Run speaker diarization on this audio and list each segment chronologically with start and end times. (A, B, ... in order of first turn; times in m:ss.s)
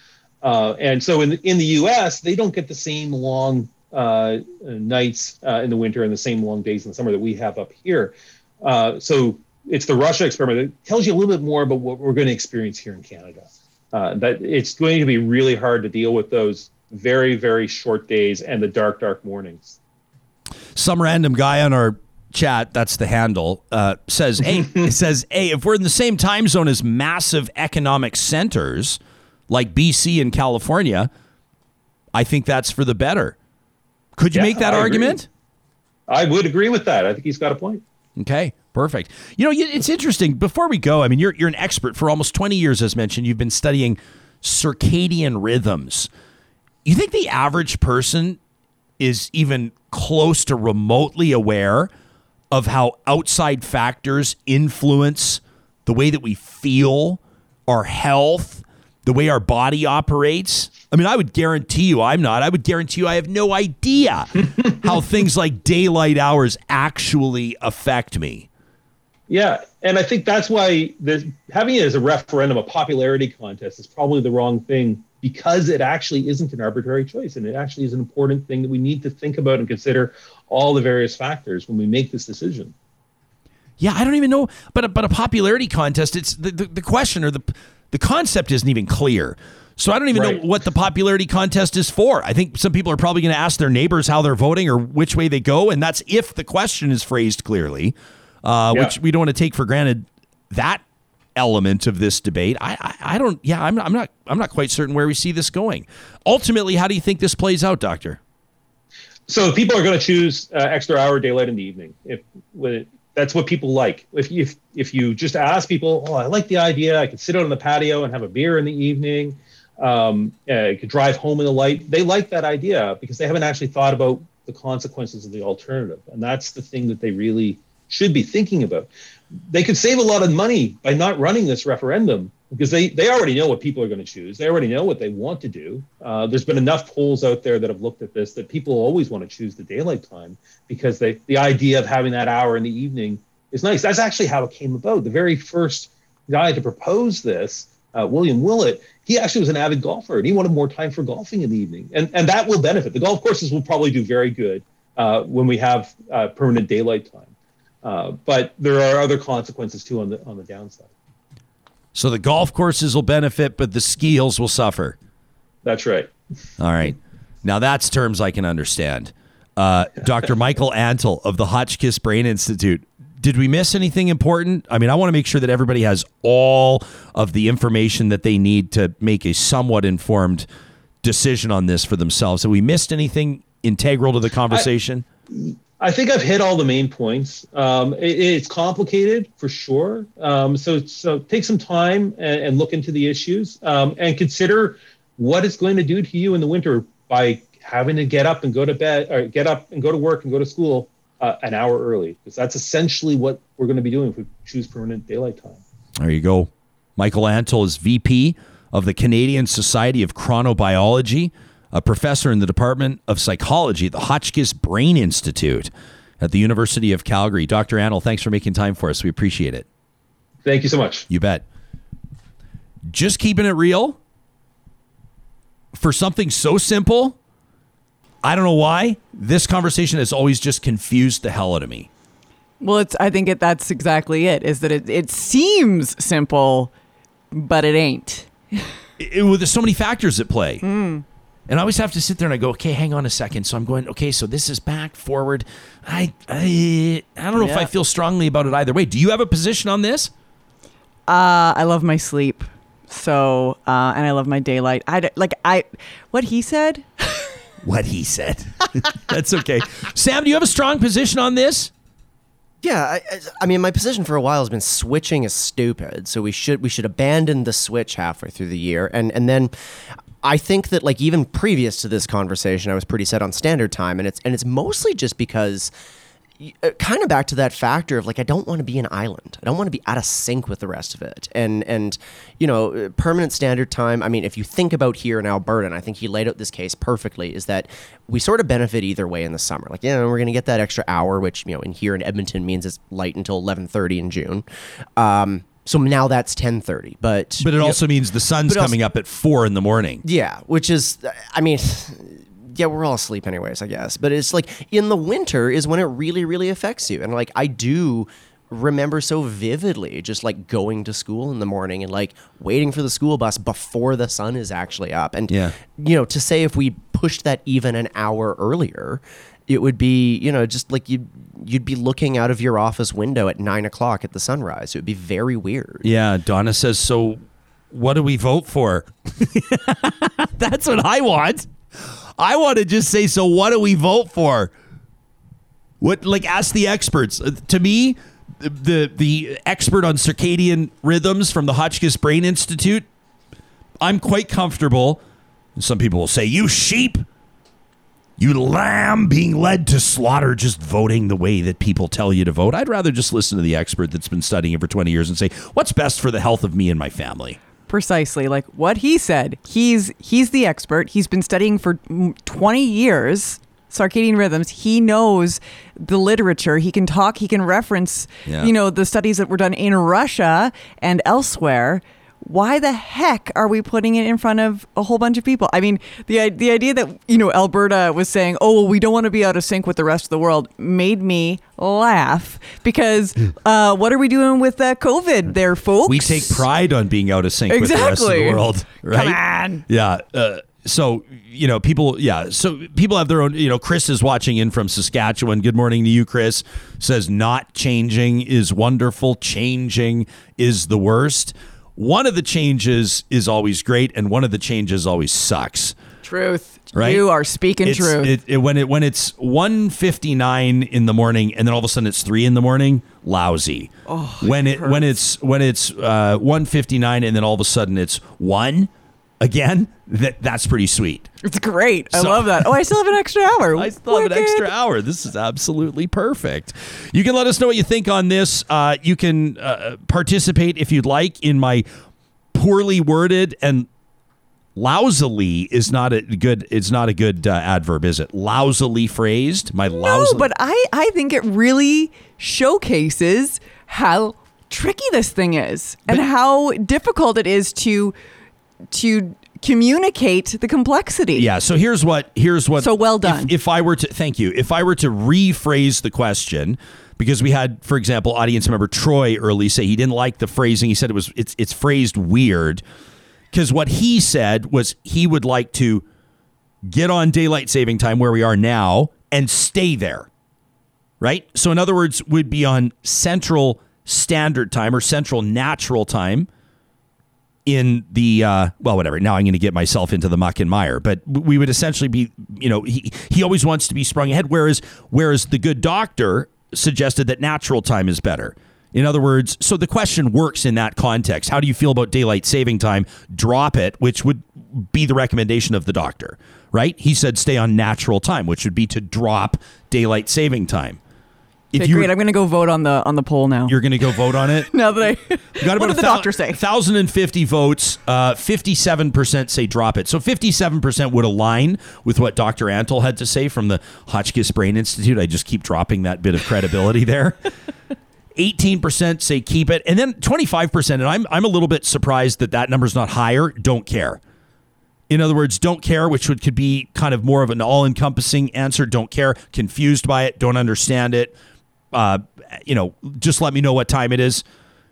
0:00.4-0:19.8 A
0:20.7-0:31.1 B
0:32.1-0:33.4 B
0:34.2-0:35.3 B
0:34.3-0:35.2 A
0:36.1-0:37.8 A
0:38.2-0:46.1 B
0:46.8-0:48.4 B
0:49.0-0:51.9 B
0:52.5-1:08.5 B
1:09.3-1:22.7 A
1:23.8-1:40.8 B
1:30.1-1:30.4 A
1:41.4-1:48.2 B
1:49.3-2:08.9 A
2:09.5-2:37.3 A
2:37.8-2:40.9 A
2:41.9-2:45.0 B
2:45.6-2:46.1 A
2:46.6-3:00.4 B
3:01.0-3:05.0 B
3:05.3-3:25.6 A
3:26.0-3:39.6 B
3:40.4-3:41.0 A
3:41.1-3:41.4 B
3:42.9-3:44.0 B
3:45.7-3:47.2 B
3:48.2-3:51.9 B
3:52.6-3:56.7 C
3:57.3-3:58.7 C
3:59.0-4:00.6 B
4:00.6-4:01.0 C
4:01.5-4:10.1 B
4:07.4-4:07.7 C
4:11.1-4:17.3 C
4:17.6-4:21.7 B
4:22.6-4:29.5 D
4:30.2-4:35.7 D
4:36.4-4:54.4 D
4:55.0-4:57.8 D
4:57.4-5:00.0 B
4:58.5-4:58.8 D
5:00.0-5:25.8 D
5:15.3-5:15.5 B
5:25.8-5:34.5 B
5:35.8-5:42.8 B
5:43.8-5:45.0 B
5:45.6-5:47.0 B
5:48.2-5:57.4 B
5:57.7-6:26.4 C
6:25.8-6:45.8 B
6:27.5-6:29.6 C
6:46.0-6:48.1 C
6:46.7-6:47.0 B
6:47.6-7:01.1 B
6:53.9-6:54.9 C
7:01.2-7:04.5 C
7:01.9-7:02.5 B
7:03.5-7:11.6 B
7:12.3-7:13.7 B
7:14.6-7:20.3 B
7:19.7-7:27.9 C
7:28.7-7:31.3 C
7:31.1-7:42.6 B
7:32.6-7:33.3 C
7:43.3-7:45.8 B
7:46.6-7:50.1 B
7:51.0-7:56.3 B
7:57.4-8:20.8 B
8:21.5-8:21.9 B
8:21.5-8:26.4 C
8:23.5-8:24.5 B
8:25.4-8:37.2 B
8:38.2-8:44.0 B
8:44.9-8:51.1 B
8:51.7-8:54.2 B